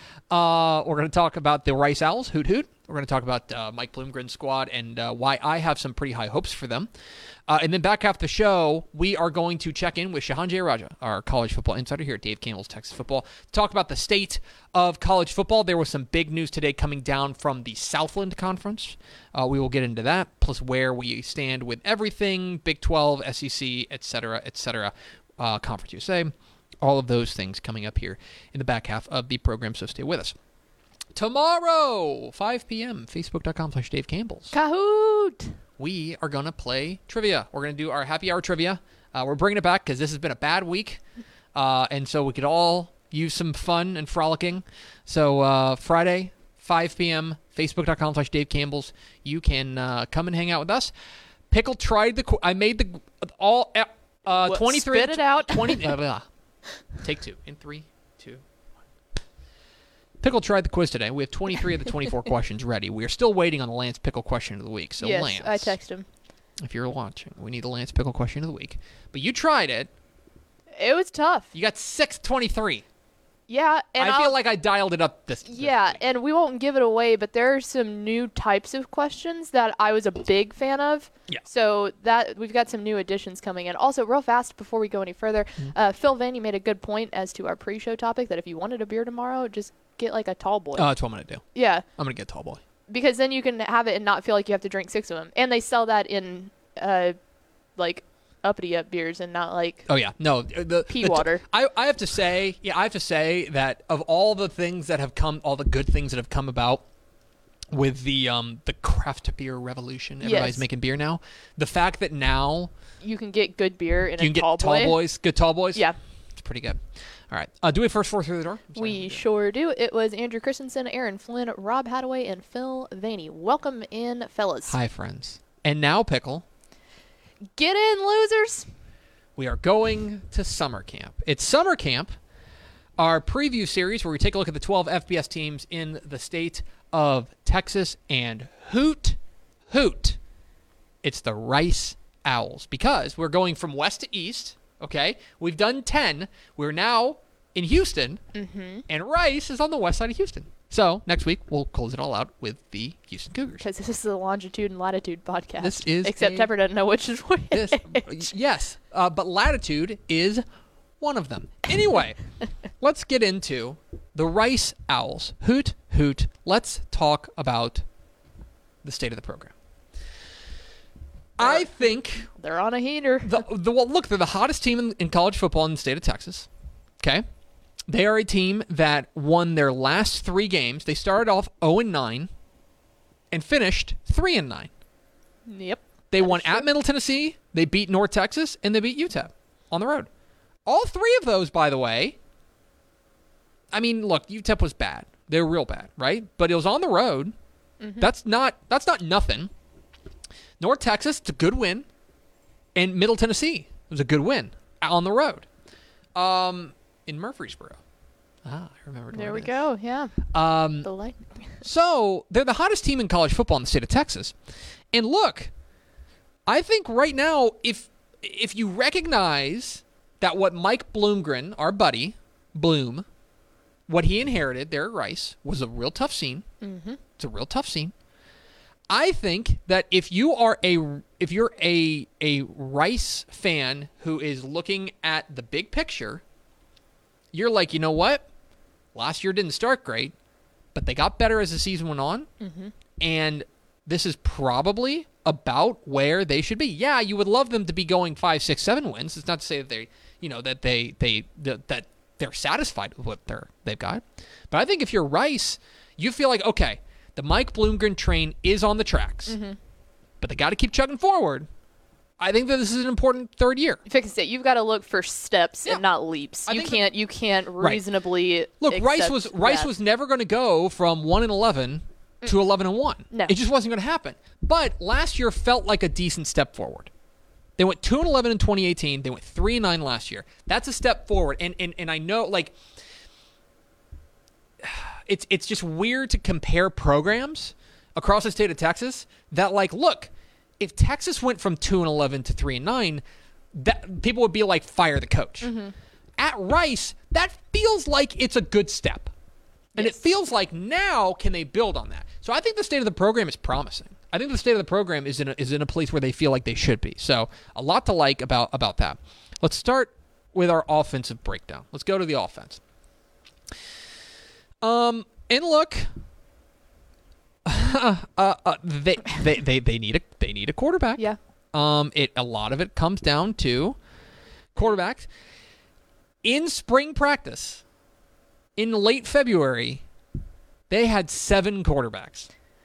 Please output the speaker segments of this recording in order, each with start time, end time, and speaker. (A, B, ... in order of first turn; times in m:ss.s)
0:00.3-0:06.9 A
0:07.5-0:30.4 A
0:31.2-0:34.5 A
0:34.5-0:35.6 B
0:35.8-0:41.0 A
0:41.6-0:50.9 A
0:51.5-0:56.3 A
0:54.5-0:55.9 B
0:56.8-0:58.4 A
1:00.2-1:05.8 A
1:05.0-1:06.1 B
1:06.6-1:09.9 A
1:10.8-1:11.5 B
1:11.5-1:12.8 A
1:13.5-1:14.4 B
1:14.0-1:16.0 A
1:15.4-1:30.9 B
1:30.8-1:32.6 A
1:31.5-1:31.9 B
1:32.9-1:37.2 B
1:37.8-1:39.9 B
1:39.9-1:46.8 A
1:40.9-1:41.4 B
1:47.7-1:52.7 A
1:50.2-1:50.6 B
1:53.0-1:55.0 B
1:54.2-1:55.8 A
1:56.4-1:59.2 A
1:58.8-2:04.8 B
2:04.7-2:06.4 A
2:07.6-2:08.7 B
2:09.4-2:12.1 A
2:13.0-2:19.2 A
2:19.7-2:20.2 A
2:21.0-2:28.2 A
2:28.3-2:28.8 B
2:28.9-2:33.7 A
2:33.6-2:38.3 B
2:35.6-2:36.5 A
2:37.5-2:40.4 A
2:41.0-2:47.9 A
2:48.8-2:49.5 A
2:51.4-2:52.3 A
2:51.4-2:53.4 B
2:53.2-2:56.5 A
2:57.0-2:57.2 A
2:57.9-3:02.3 A
3:03.3-3:04.7 A
3:05.5-3:06.7 B
3:06.1-3:10.1 A
3:10.7-3:12.2 A
3:13.7-3:17.3 A
3:17.8-3:18.1 B
3:18.0-3:19.5 A
3:20.6-3:21.9 A
3:22.8-3:25.5 A
3:26.1-3:27.8 A
3:28.4-3:29.6 A
3:29.1-3:31.6 B
3:30.3-3:30.9 A
3:31.6-3:34.4 A
3:34.9-3:35.5 A
3:36.5-3:43.1 A
3:43.9-3:46.5 A
3:46.6-3:47.0 B
3:47.2-3:47.9 A
3:48.9-3:56.2 A
3:57.3-3:58.3 A
3:58.9-4:00.1 A
4:00.7-4:02.3 A
4:02.4-4:02.7 B
4:03.0-4:19.4 A
4:19.3-4:19.6 B
4:20.2-4:21.4 A
4:22.2-4:23.8 A
4:23.9-4:29.7 B
4:26.4-4:26.9 A
4:28.6-4:36.9 A
4:37.6-4:42.6 A
4:44.6-4:53.0 A
4:53.5-4:55.5 A
4:55.4-4:55.7 B
4:56.2-4:59.1 A
4:59.8-5:00.1 B
4:59.8-5:12.6 A
5:14.6-5:15.9 A
5:17.4-5:23.8 A
5:24.5-5:25.1 A
5:26.2-5:27.6 A
5:28.6-5:29.8 A
5:30.7-5:32.3 A